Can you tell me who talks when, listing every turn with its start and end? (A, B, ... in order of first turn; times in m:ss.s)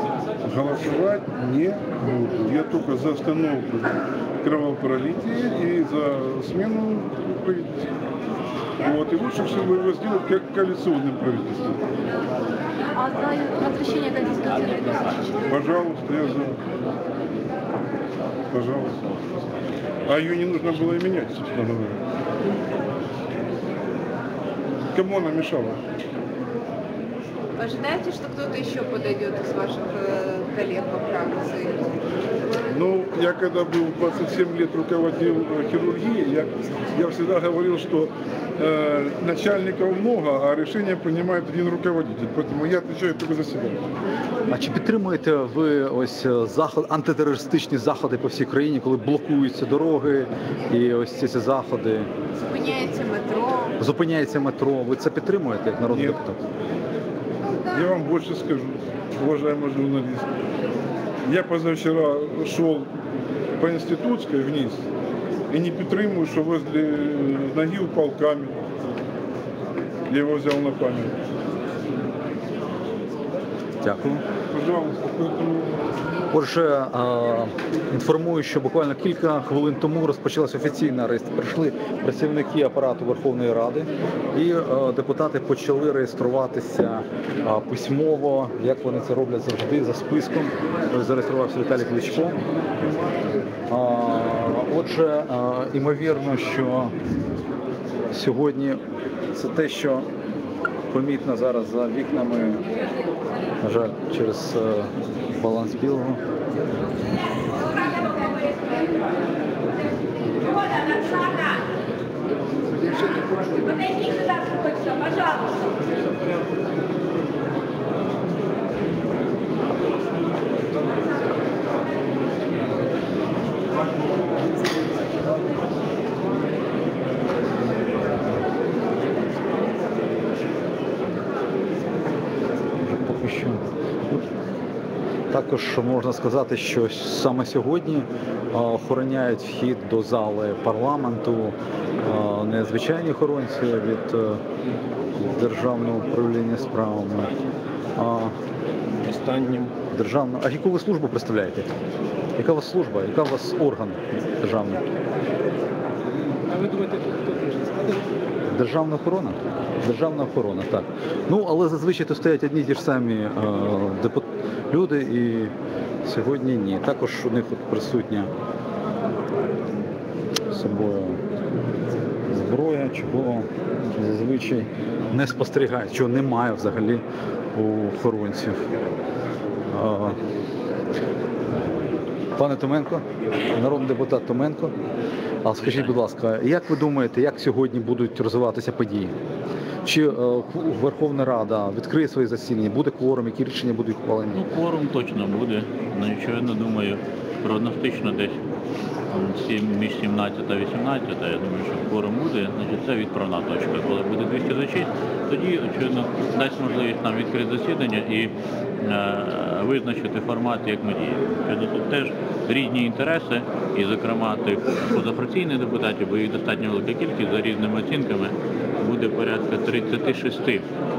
0:00.4-0:07.9 A
0:08.8-0:11.8 A
0:12.9-0:15.4 B
0:15.4-0:16.6 A
0:18.5-0:19.0 A
0:20.0-0:22.0 A
0:24.9-0:25.8 A
0:27.6-0:32.0 C
0:32.7-0:43.8 A
0:44.5-0:52.1 D
0:52.5-0:53.8 C
0:53.8-0:56.4 D
0:55.9-0:56.2 A
0:57.7-1:00.3 A
1:01.2-1:02.9 A
1:03.6-1:04.8 A
1:05.5-1:08.6 A
1:10.1-1:11.1 A
1:13.8-1:14.2 D
1:14.5-1:15.8 A
1:16.3-1:32.4 D
1:33.7-1:36.9 D
1:38.1-1:38.8 D
1:39.3-1:40.1 D
1:40.9-1:42.6 D
1:43.6-1:46.2 D
1:54.0-1:55.4 C
2:12.8-2:14.2 D
2:15.3-2:24.4 D
2:25.1-2:27.3 D
2:28.0-2:28.3 D
2:29.0-2:29.7 E
2:29.9-2:31.7 D
2:32.4-2:34.8 D
2:36.5-2:38.0 E
2:38.5-2:45.5 D
2:46.0-2:48.3 D
2:50.5-2:51.2 D
2:52.3-2:57.0 D
2:57.5-2:58.7 D
2:59.7-3:00.2 D
3:02.4-3:04.7 D
3:05.4-3:09.1 D
3:05.6-3:05.9 F
3:09.8-3:14.4 D
3:14.3-3:18.4 F
3:19.1-3:40.7 F